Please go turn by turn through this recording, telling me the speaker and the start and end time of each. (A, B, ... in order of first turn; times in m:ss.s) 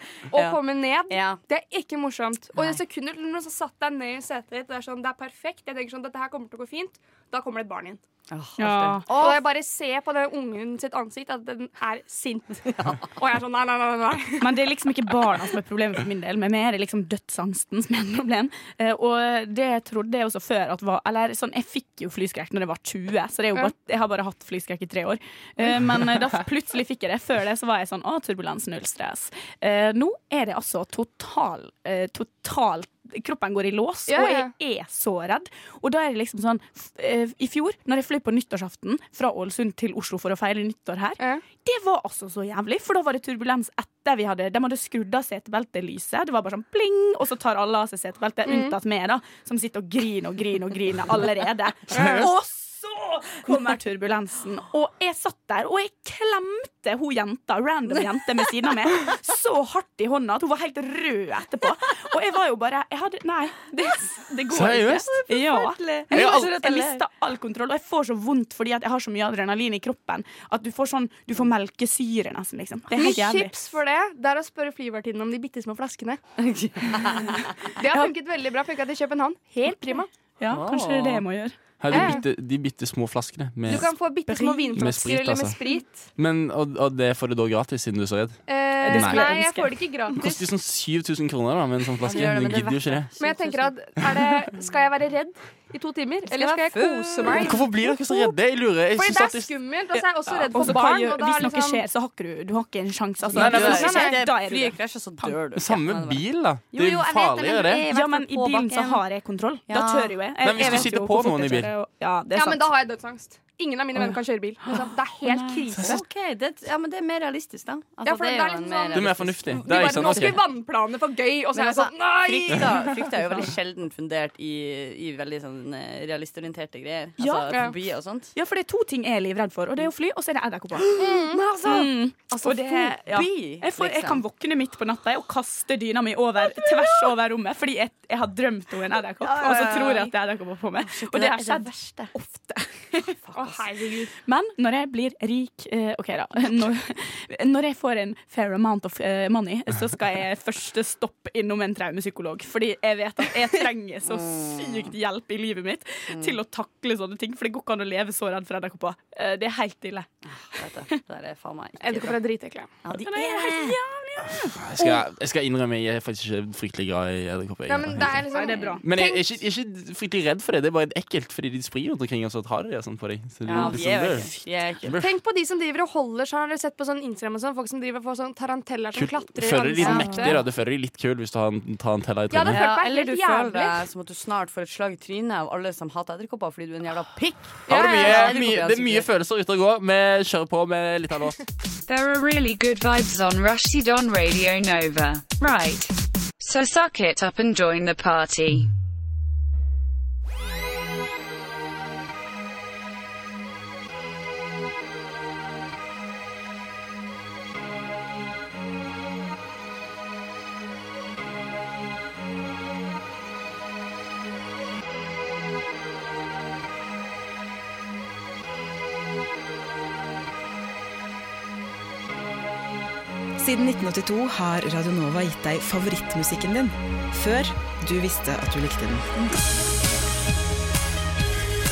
0:00.3-0:01.4 A
0:00.3-0:08.0 B
0:08.3-0:09.4 A
0:08.6-0:09.1 C
0:09.1-0:14.6 B
0:12.7-0:13.1 A
0:14.4-1:13.5 C
0:34.1-0:34.5 B
0:48.5-0:48.7 B
1:04.5-1:05.1 D
1:04.9-1:07.0 A
1:06.1-1:06.5 D
1:12.9-1:16.2 B
1:16.4-1:17.6 A
1:17.8-1:20.1 B
1:19.6-1:22.2 C
1:20.5-1:21.2 A
1:21.8-1:23.9 D
1:21.9-1:22.2 B
1:23.7-1:26.0 B
1:24.3-1:24.7 C
1:24.7-1:25.6 D
1:26.2-1:29.4 D
1:28.5-1:30.5 B
1:28.8-1:29.7 C
1:30.2-1:33.1 D
1:32.0-1:33.8 A
1:33.2-1:37.6 B
1:36.3-1:37.6 A
1:37.2-1:40.6 D
1:38.9-1:41.8 B
1:40.5-1:45.4 C
1:43.2-1:49.0 A
1:43.3-1:44.2 D
1:43.6-1:44.1 B
1:45.5-1:47.8 D
1:47.9-1:52.7 C
1:49.7-1:50.8 A
1:50.4-1:51.7 D
1:52.3-1:55.9 B
1:54.0-1:55.8 C
1:55.8-2:00.4 A
1:58.0-2:03.5 B
1:58.9-2:00.4 D
2:01.5-2:08.3 A
2:07.2-2:07.7 C
2:07.5-2:07.8 B
2:08.3-2:11.0 C
2:10.8-2:14.2 A
2:11.0-2:11.5 B
2:11.6-2:23.1 C
2:19.2-2:20.2 A
2:20.8-2:22.1 A
2:23.1-2:23.6 A
2:23.3-2:24.1 B
2:24.2-2:41.0 C
2:34.0-2:34.9 A
2:36.1-2:36.4 A
2:40.3-2:42.2 A
2:41.8-2:42.7 B
2:41.9-2:42.2 C
2:42.8-2:43.8 A
2:42.9-2:45.0 C
2:44.2-2:55.1 D
2:47.7-2:49.2 B
2:48.3-2:48.8 C
2:53.5-2:54.9 A
2:55.0-3:00.4 B
2:58.9-3:02.6 D
2:59.8-3:00.3 A
3:02.3-3:03.8 B
3:02.4-3:09.1 A
3:07.7-3:11.4 D
3:07.7-3:08.4 B
3:11.9-3:18.7 E
3:43.4-3:49.1 F